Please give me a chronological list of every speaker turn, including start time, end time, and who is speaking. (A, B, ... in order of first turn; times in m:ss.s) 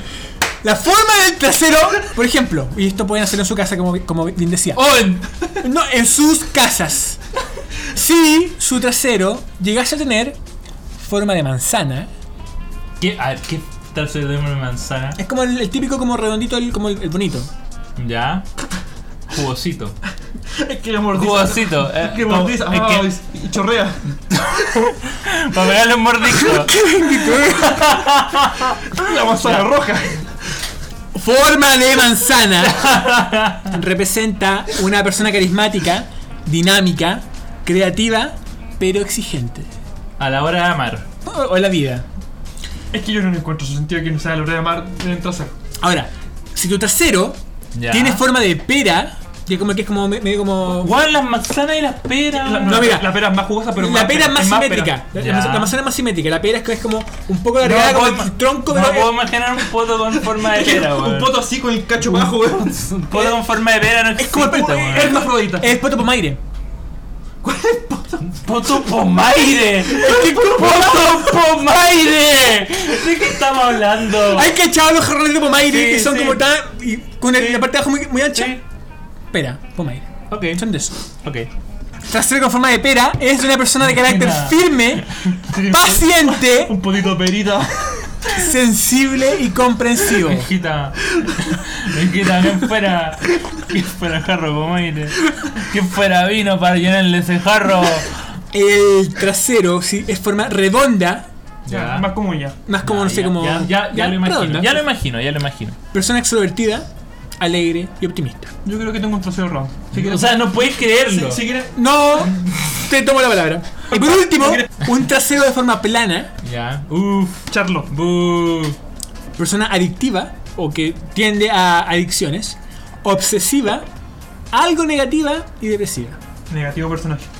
0:00.6-0:05.0 A
0:04.8-0:05.2 B
0:05.6-0:07.2 A
0:07.9-0:10.4 A
0:11.0-0:12.1 A
0:13.0-0:15.2 B
0:15.2-0:17.5 A
0:18.0-0:18.5 B
0:19.3-0:20.0 B
0:20.5-0:24.0 C
0:21.1-0:23.1 B
0:24.3-0:28.9 B
0:26.3-0:28.0 A
0:28.9-0:30.3 C
0:31.1-0:33.0 A
0:32.6-0:33.7 B
0:33.6-0:39.7 A
0:40.2-0:41.0 B
0:41.2-0:42.0 A
0:42.9-0:45.6 C
0:45.8-0:47.4 A
0:47.7-0:48.2 B
0:47.9-0:50.9 A
0:50.8-0:52.9 B
0:52.3-0:55.0 C
0:52.6-0:53.1 A
0:53.7-0:59.1 A
0:55.1-0:55.7 B
0:57.6-1:01.3 B
1:00.2-1:03.4 C
1:02.5-1:05.2 B
1:04.2-1:05.7 C
1:05.6-1:06.4 A
1:07.4-1:08.2 C
1:08.2-1:14.5 B
1:10.0-1:10.8 C
1:14.3-1:18.6 A
1:15.6-1:16.4 B
1:17.3-1:17.7 B
1:18.3-1:18.6 B
1:19.3-1:21.0 A
1:20.3-1:20.6 B
1:21.2-1:21.5 B
1:22.0-1:26.8 A
1:23.9-1:25.0 B
1:25.4-1:28.1 C
1:28.3-1:30.5 A
1:30.1-1:38.2 B
1:38.5-1:41.3 A
1:41.6-1:42.1 B
1:41.7-1:42.6 C
1:42.6-1:44.8 A
1:42.8-1:45.8 B
1:45.9-1:46.9 A
1:47.4-1:48.5 A
1:48.6-1:51.7 C
1:49.9-1:51.4 B
1:51.7-1:56.3 A
1:52.3-1:52.7 B
1:56.4-1:58.8 B
1:57.5-1:57.9 C
1:59.4-2:03.8 A
2:04.5-2:06.2 A
2:06.5-2:07.3 C